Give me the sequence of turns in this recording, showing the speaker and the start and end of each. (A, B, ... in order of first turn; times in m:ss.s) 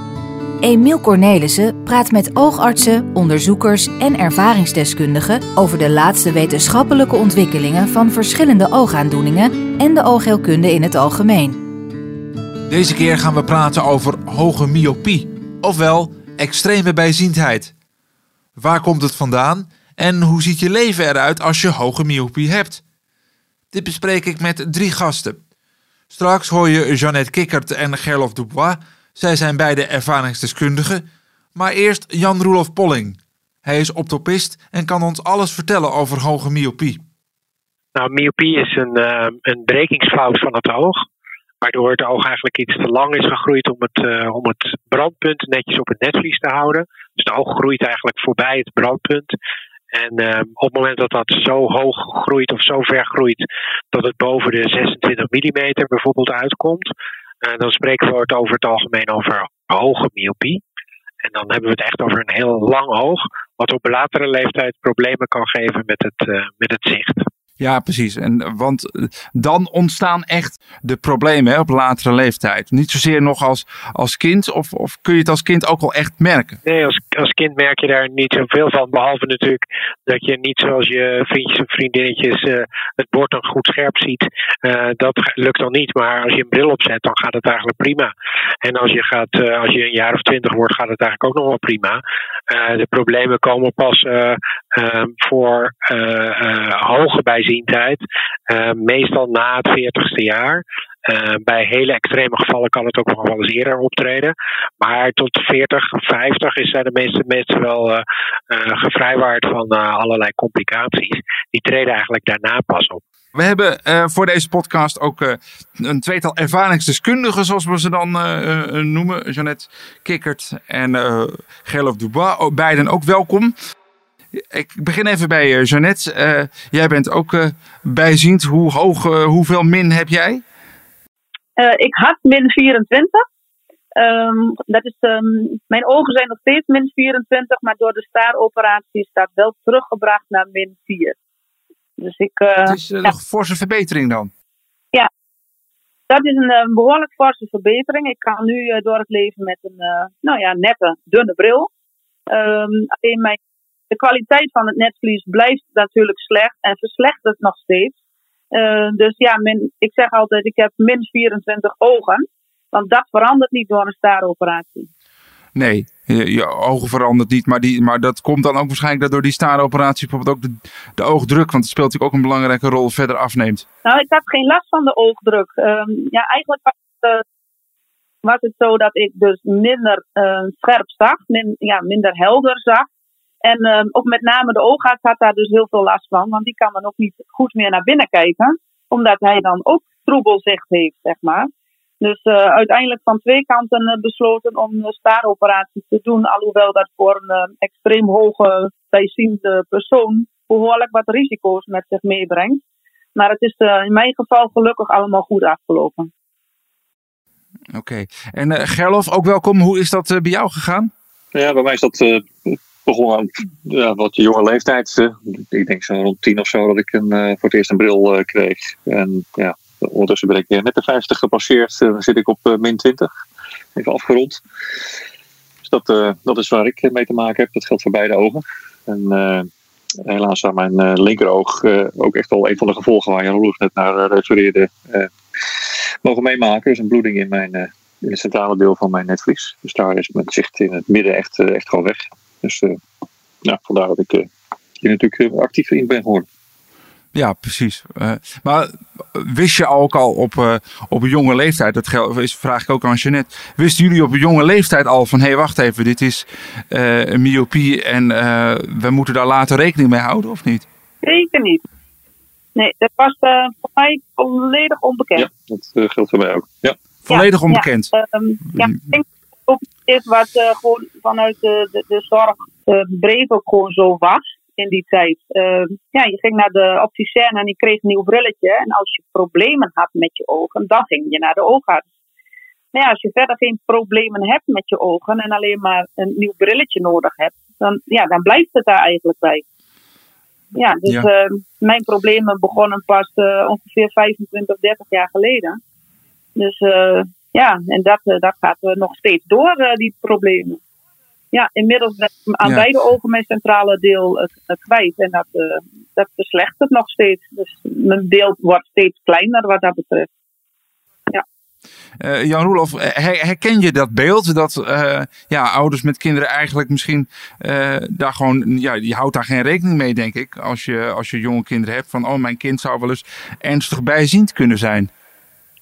0:00.6-0:11.6 A
0:12.7-0:17.7 B
0:18.6-0:22.8 B
0:23.7-0:25.4 B
0:26.1-0:37.0 B
0:38.0-0:41.0 C
0:41.6-0:49.3 C
0:49.9-0:56.9 C
0:57.4-1:00.6 C
1:01.2-1:07.3 C
1:07.6-1:16.6 B
1:16.6-1:28.1 C
1:28.6-1:53.0 C
1:53.4-2:03.6 B
2:04.5-2:10.4 B
2:11.6-2:13.2 D
2:14.0-2:21.2 D
2:22.0-2:23.1 D
2:22.7-2:24.3 B
2:26.1-2:31.7 D
2:32.3-2:33.4 D
2:33.9-2:38.0 D
2:38.5-2:44.9 D
2:45.6-2:53.6 B
2:53.8-2:57.2 D
2:58.2-3:02.9 D
3:03.4-3:22.6 D
3:23.2-3:26.1 D
3:27.7-3:30.9 B
3:31.3-3:43.1 E
3:43.8-3:44.4 E
3:45.6-3:49.5 E
3:50.0-4:02.8 E
4:03.4-4:04.3 E
4:04.8-4:06.3 E
4:07.1-4:20.7 B
4:21.0-4:21.6 D
4:22.6-4:25.3 D
4:25.2-4:26.8 E
4:27.0-4:27.9 B
4:27.1-4:41.9 D
4:42.7-4:49.4 D
4:50.6-4:55.6 D
4:56.4-5:00.6 D
5:01.3-5:10.1 D
5:12.0-5:24.9 B